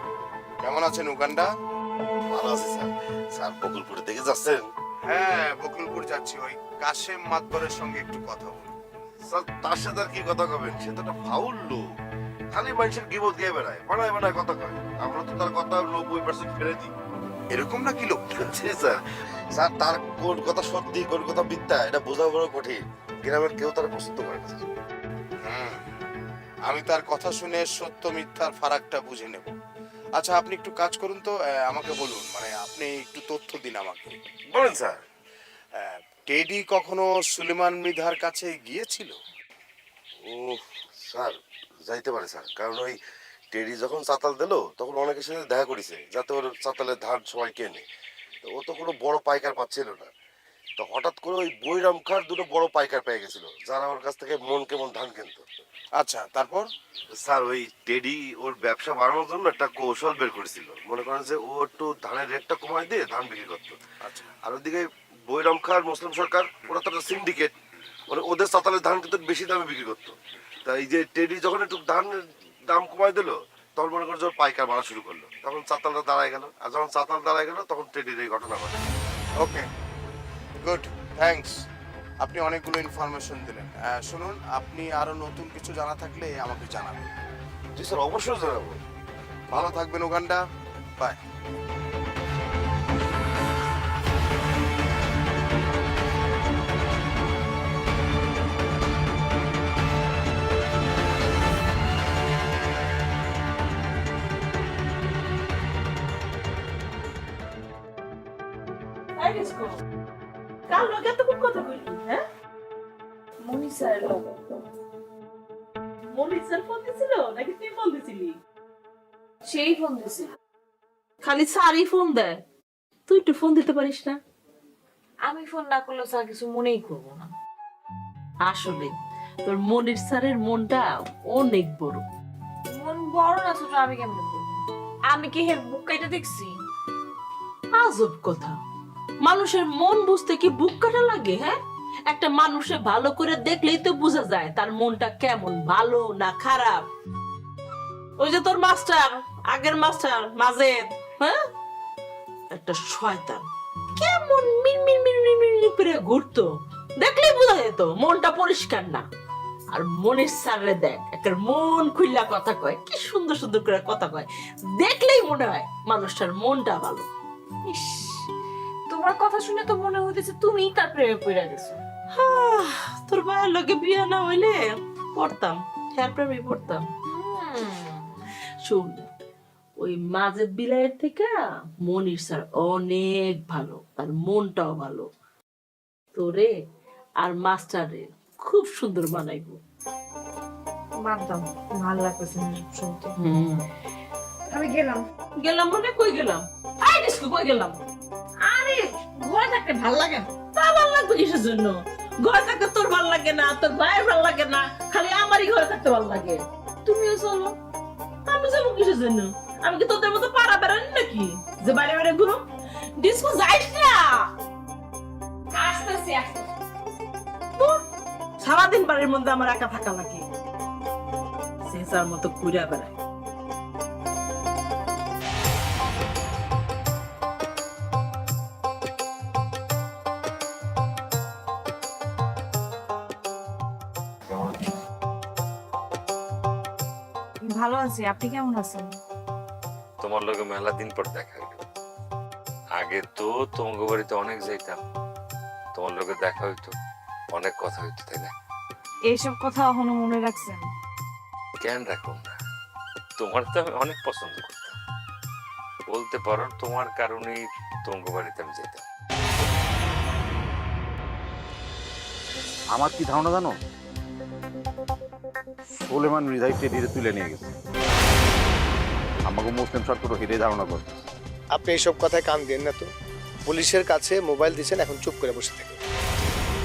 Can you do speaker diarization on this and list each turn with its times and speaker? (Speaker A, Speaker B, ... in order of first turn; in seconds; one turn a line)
Speaker A: 0.6-1.5
Speaker B: 2.3-4.6
Speaker A: 5.0-8.7
Speaker B: 9.3-11.8
Speaker B: 12.5-16.9
Speaker A: 17.5-18.6
Speaker B: 18.4-19.0
Speaker B: 19.5-24.6
Speaker A: 25.4-25.8
Speaker A: 26.7-29.5
Speaker A: 30.2-34.1
Speaker B: 34.5-35.0
Speaker A: 35.8-39.1
Speaker B: 40.2-43.0
Speaker B: 43.5-47.8
Speaker B: 48.4-50.1
Speaker B: 50.8-55.4
Speaker A: 56.0-56.6
Speaker B: 57.2-63.8
Speaker A: 64.0-64.3
Speaker B: 64.4-67.5
Speaker B: 68.1-78.8
Speaker A: 79.4-79.7
Speaker A: 80.6-81.5
Speaker A: 82.2-87.1
Speaker B: 87.8-88.8
Speaker A: 89.5-90.4
Speaker C: 109.2-109.7
Speaker C: 110.7-112.2
Speaker D: 113.4-114.4
Speaker C: 116.1-118.3
Speaker D: 119.4-120.3
Speaker C: 121.2-122.4
Speaker C: 123.1-124.2
Speaker D: 125.2-127.3
Speaker C: 128.4-132.0
Speaker D: 132.7-136.5
Speaker C: 137.7-138.6
Speaker C: 139.2-146.8
Speaker C: 148.2-151.4
Speaker C: 152.5-159.0
Speaker C: 159.7-167.1
Speaker D: 167.7-168.3
Speaker D: 168.9-171.8
Speaker C: 172.1-176.9
Speaker D: 177.1-178.1
Speaker C: 178.6-179.0
Speaker C: 179.8-185.1
Speaker C: 186.1-186.5
Speaker C: 187.2-189.6
Speaker D: 191.0-193.1
Speaker C: 193.2-193.7
Speaker D: 194.5-195.0
Speaker C: 195.4-197.8
Speaker D: 198.4-200.3
Speaker C: 200.5-206.4
Speaker D: 206.8-207.5
Speaker C: 208.2-212.4
Speaker C: 213.0-214.3
Speaker D: 215.6-216.4
Speaker C: 217.6-217.8
Speaker C: 218.4-220.2
Speaker C: 221.6-222.9
Speaker D: 237.4-238.9
Speaker E: 240.0-241.6
Speaker E: 242.8-244.8
Speaker E: 245.7-246.7
Speaker E: 247.3-248.3
Speaker D: 249.1-250.7
Speaker E: 251.6-252.3
Speaker E: 253.2-254.8
Speaker E: 255.9-258.8
Speaker F: 262.7-263.6
Speaker F: 265.7-267.5
Speaker F: 269.2-271.0
Speaker G: 271.5-272.9
Speaker G: 273.5-275.8